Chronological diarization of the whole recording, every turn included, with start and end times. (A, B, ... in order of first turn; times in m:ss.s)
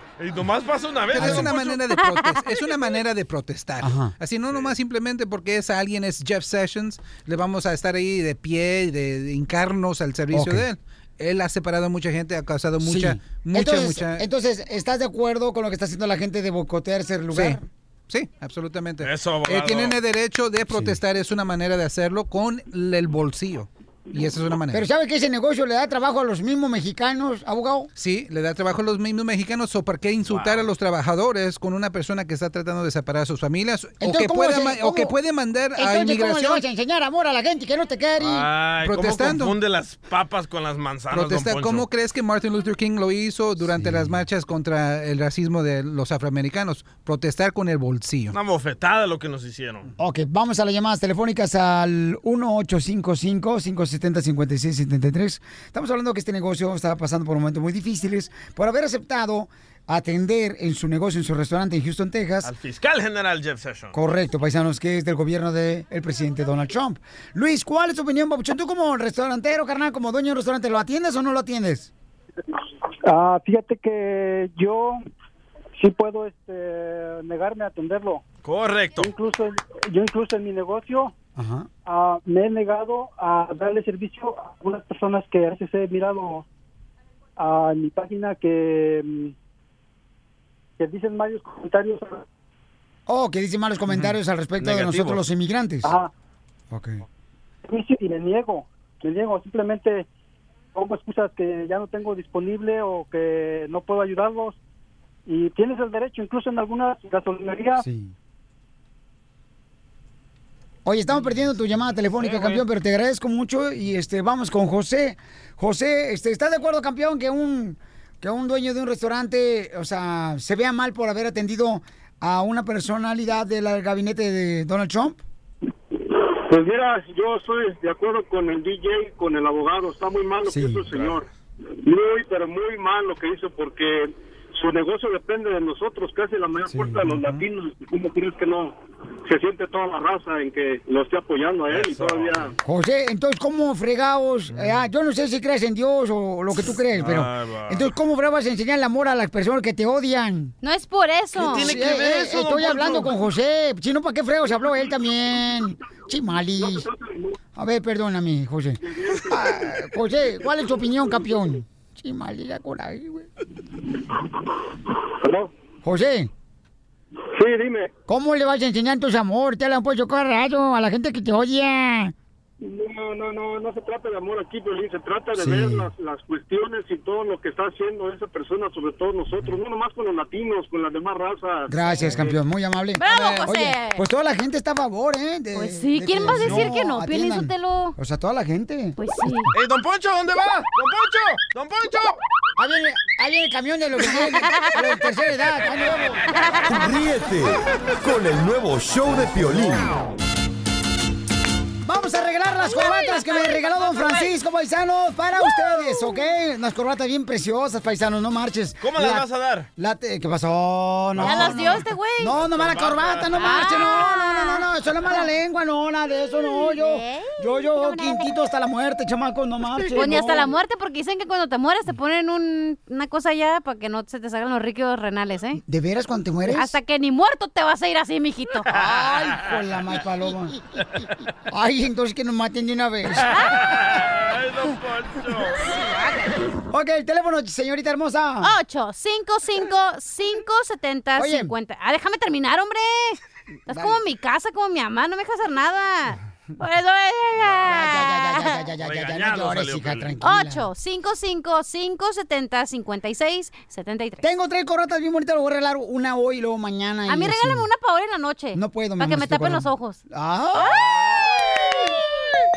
0:00.2-0:01.8 A
0:01.1-0:14.2 B
0:01.1-0:01.5 C
0:03.8-0:04.1 C
0:10.3-0:10.6 C
0:12.8-0:17.6 C
0:17.3-0:24.8 B
0:19.0-0:20.0 A
0:24.7-0:27.9 C
0:28.0-0:36.6 B
0:30.3-0:30.6 A
0:34.0-0:35.1 C
0:35.8-0:38.5 C
0:38.2-0:41.9 A
0:38.8-0:39.6 B
0:41.1-0:48.4 B
0:43.7-0:44.1 C
0:48.3-0:49.9 A
0:50.0-1:02.5 C
1:02.4-1:03.9 A
1:03.9-1:11.9 C
1:13.1-1:15.0 D
1:15.8-1:18.2 D
1:18.4-1:19.1 A
1:19.0-1:21.1 D
1:21.4-1:21.7 C
1:21.8-1:26.4 D
1:27.4-1:29.3 D
1:30.8-1:32.2 D
1:33.1-1:35.9 C
1:34.6-1:35.2 A
1:35.8-1:36.1 D
1:36.7-1:37.0 C
1:37.6-1:40.1 D
1:40.7-1:44.6 D
1:45.2-1:47.8 D
1:47.8-1:48.1 C
1:50.8-2:05.2 C
2:06.5-2:11.2 E
2:10.5-2:10.8 C
2:10.9-2:11.2 A
2:11.8-2:22.5 E
2:16.7-2:17.4 C
2:21.7-2:22.5 A
2:22.6-2:30.5 C
2:26.9-2:27.9 A
2:30.6-2:31.7 F
2:31.4-2:33.1 A
2:31.4-2:36.9 C
2:36.6-2:37.0 E
2:37.6-2:43.3 C
2:39.0-2:39.8 E
2:45.2-2:45.5 E
2:45.8-2:46.3 C
2:47.3-2:47.9 E
2:48.1-2:52.1 C
2:52.6-3:02.4 E
2:55.4-2:55.9 C
3:01.7-3:09.6 C
3:03.0-3:04.0 F
3:05.6-3:07.9 F
3:09.0-3:09.5 F
3:09.5-3:12.2 A
3:12.6-3:16.2 C
3:16.7-3:20.0 G
3:21.8-3:29.2 C
3:22.7-3:24.3 F
3:25.6-3:26.1 F
3:28.8-3:29.7 A
3:29.8-3:40.5 C
3:31.2-3:31.6 A
3:31.2-3:32.3 F
3:32.3-3:33.8 A
3:33.4-3:35.2 F
3:36.4-3:38.3 F
3:39.9-3:45.6 F
3:45.6-3:46.8 C
3:46.5-3:48.7 F
3:48.7-3:50.6 C
3:48.7-3:49.5 A
3:51.5-3:53.3 C
3:53.4-3:55.7 A
3:56.7-3:58.5 C
3:58.4-4:08.6 F
4:01.2-4:01.5 C
4:03.7-4:04.0 C
4:07.6-4:10.7 C
4:08.8-4:10.1 A
4:10.2-4:14.2 F
4:14.2-4:17.7 C
4:17.1-4:20.0 F
4:18.5-4:21.7 C
4:20.5-4:21.0 F